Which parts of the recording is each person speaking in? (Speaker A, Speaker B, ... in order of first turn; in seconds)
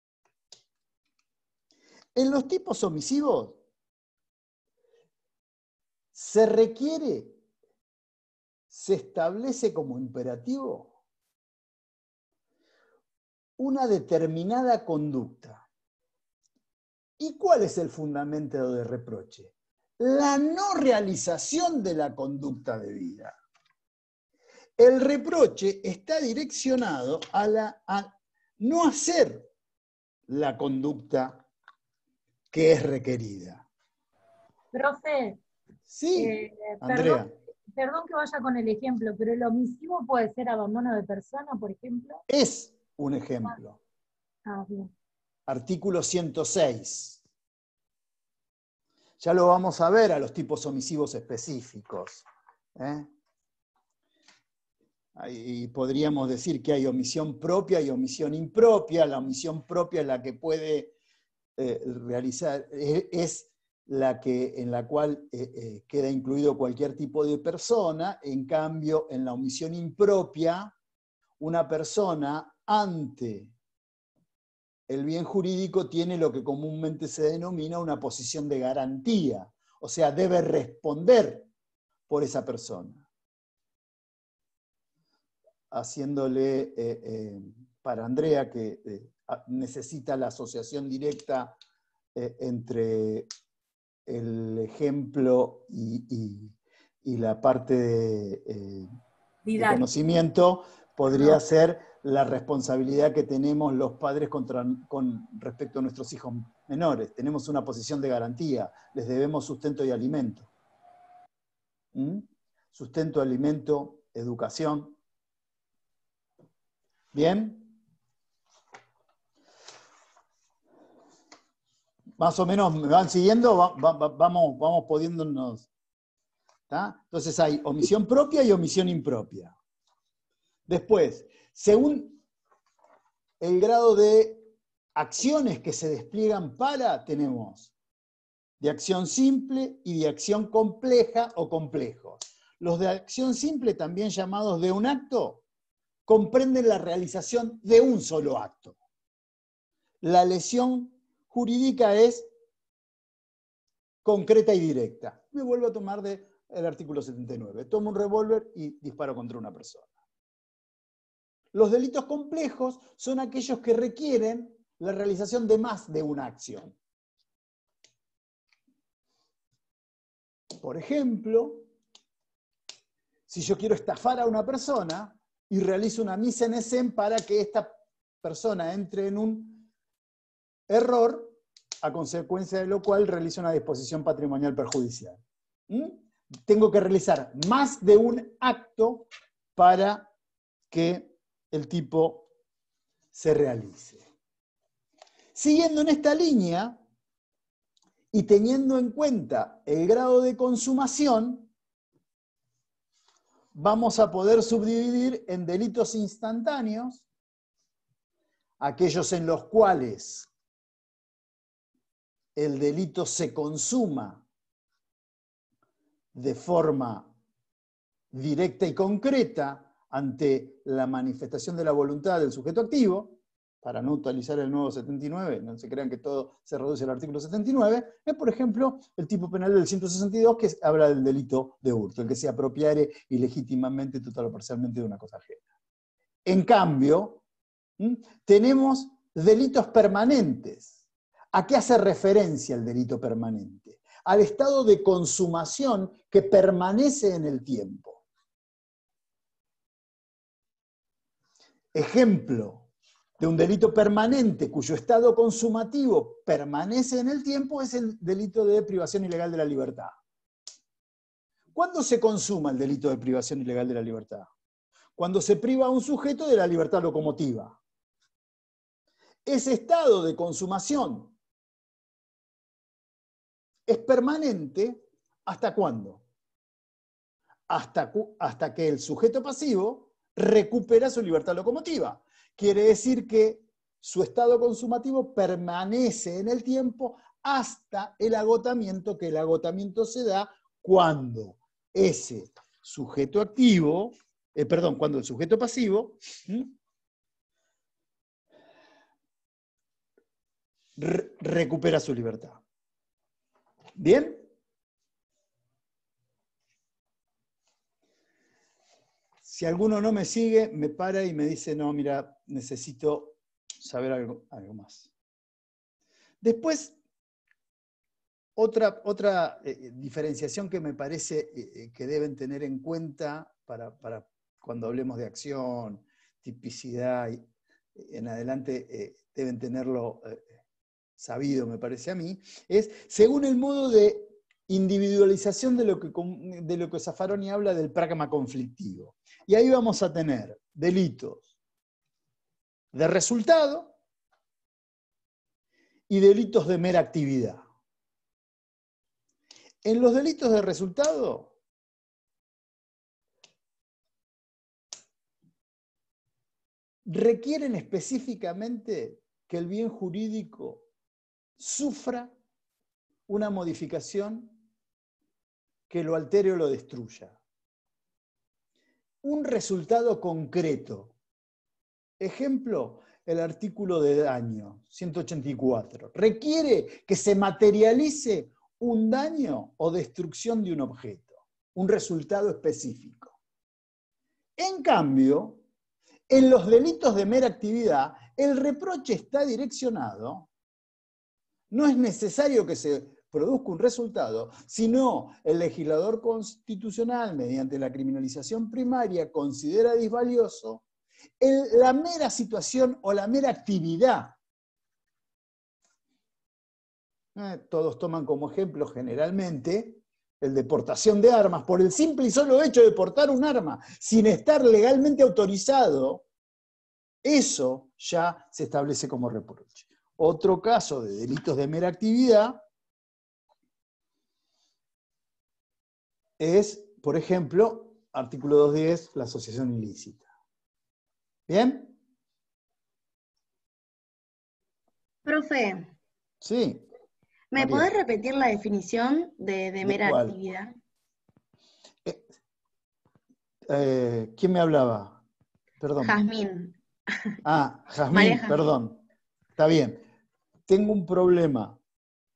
Speaker A: 2.1-3.6, 6.1-7.4, 8.7-10.9, 13.6-15.6, 17.2-23.3, 24.8-29.5, 30.3-31.4, 32.5-33.6, 35.9-37.3, 42.3-43.8, 45.5-47.2, 49.2-52.2, 52.8-53.1, 55.1-60.9, 61.6-70.7, 71.4-73.5, 74.9-81.5, 82.1-83.0, 85.7-91.6, 92.1-93.3, 94.1-98.9, 99.6-110.5, 111.9-115.0, 117.1-117.8, 122.2-125.7, 126.7-129.5, 130.7-132.2, 133.4-137.7, 138.6-145.4, 146.1-148.7, 150.0-152.3, 154.0-159.9, 161.5-166.7, 170.6-171.7, 173.3-179.7, 180.7-190.1, 190.7-192.3, 193.1-194.0, 195.3-196.8, 198.1-201.5, 203.5-207.0, 208.6-210.3, 212.3-214.2, 216.1-217.1, 218.1-235.4, 236.2-237.2, 237.8-240.7, 241.3-248.0, 251.7-252.7, 253.2-259.9, 261.5-264.3, 265.0-267.6, 269.2-271.1, 273.7-276.0, 277.5-296.5, 300.8-302.4, 303.8-304.2, 309.2-314.9, 316.2-316.8, 318.4-327.2, 327.8-330.3, 331.0-341.3, 342.7-343.7, 345.9-347.4, 349.6-351.3, 356.9-360.7, 361.4-362.1, 363.1-364.4, 365.7-367.1, 369.0-370.9, 372.0-383.1, 384.4-385.4, 386.1-390.3, 391.5-400.6, 401.2-404.1, 407.1-416.0, 417.0-422.4, 426.2-430.1, 431.3-431.8, 436.2-436.6, 437.4-437.7, 439.6-440.1, 443.5-445.0, 445.6-445.9, 447.2-448.8, 449.4-449.8, 450.5-451.6
Speaker B: 34.7-35.4, 36.1-42.2, 44.5-44.9, 99.5-99.9
Speaker C: 435.0-435.7, 437.3-440.5, 445.8-446.6, 447.9-448.4